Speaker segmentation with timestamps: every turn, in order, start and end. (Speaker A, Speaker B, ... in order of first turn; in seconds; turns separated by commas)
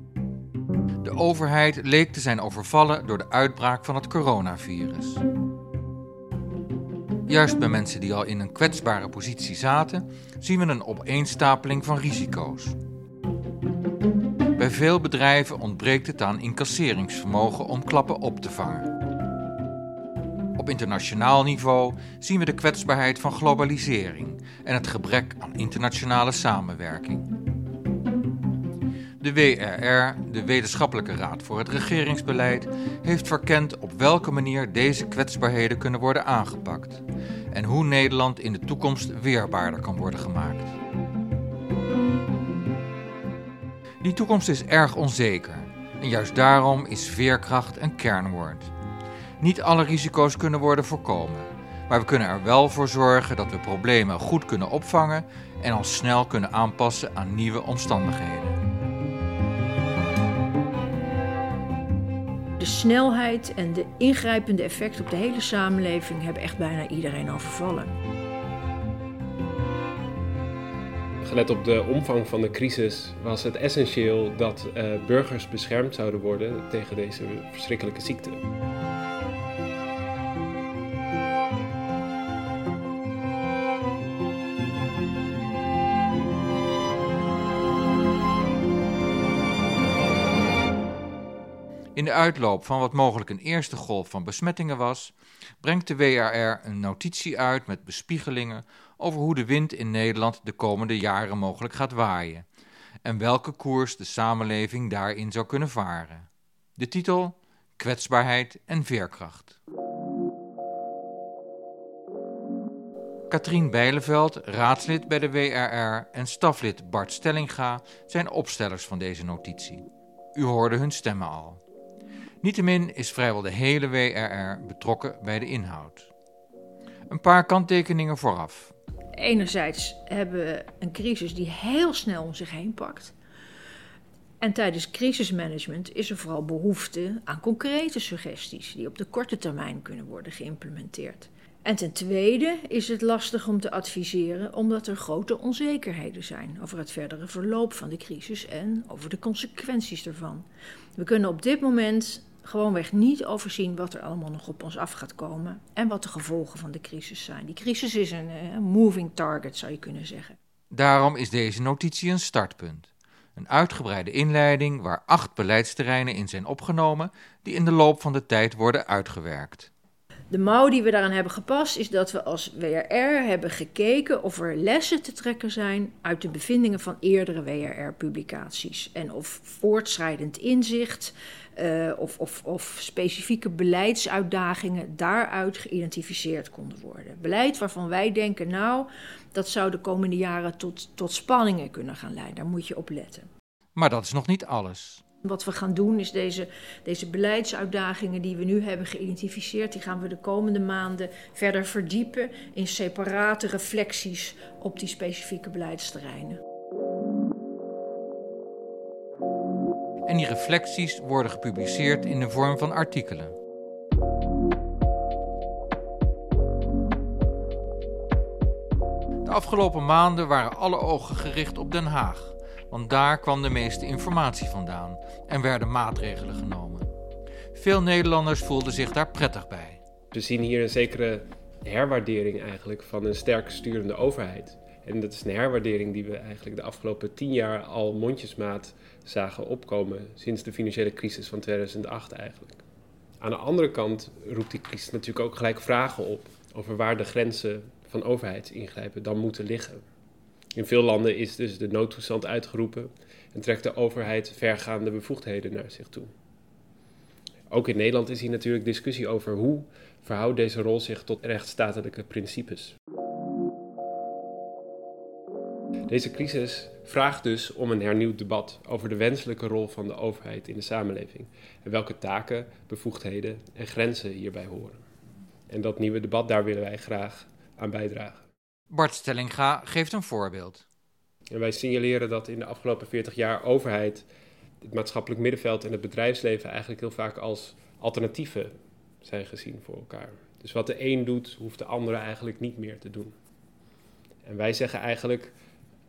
Speaker A: 1.0-5.2, Speaker A: 7.3-12.8, Speaker A: 14.6-18.9, Speaker A: 20.6-27.3, Speaker A: 29.2-40.7, Speaker A: 44.0-48.7, Speaker A: 49.4-58.6, Speaker B: 62.6-67.9, Speaker C: 71.2-78.4, Speaker A: 92.0-102.5, Speaker A: 103.0-109.6, Speaker A: 113.3-119.8, Speaker A: 120.3-121.6, Speaker A: 122.4-126.1, Speaker A: 127.1-128.7, Speaker B: 129.2-133.1, Speaker B: 134.4-160.4, Speaker A: 160.7-169.7, Speaker B: 170.3-193.3, Speaker A: 193.8-195.0, Speaker B: 195.2-206.4, Speaker A: 210.1-213.3, Speaker A: 219.2-226.9, Speaker A: 227.5-229.8, Speaker C: 230.1-242.6, Speaker C: 243.2-249.8, Speaker C: 250.5-256.1, Speaker C: 257.5-262.8, Speaker C: 265.9-274.8, Speaker C: 275.5-278.2, Speaker A: 278.7-280.6, Speaker C: 281.3-284.0, Speaker C: 284.6-288.5, Speaker C: 289.0-293.1, Speaker C: 294.2-295.4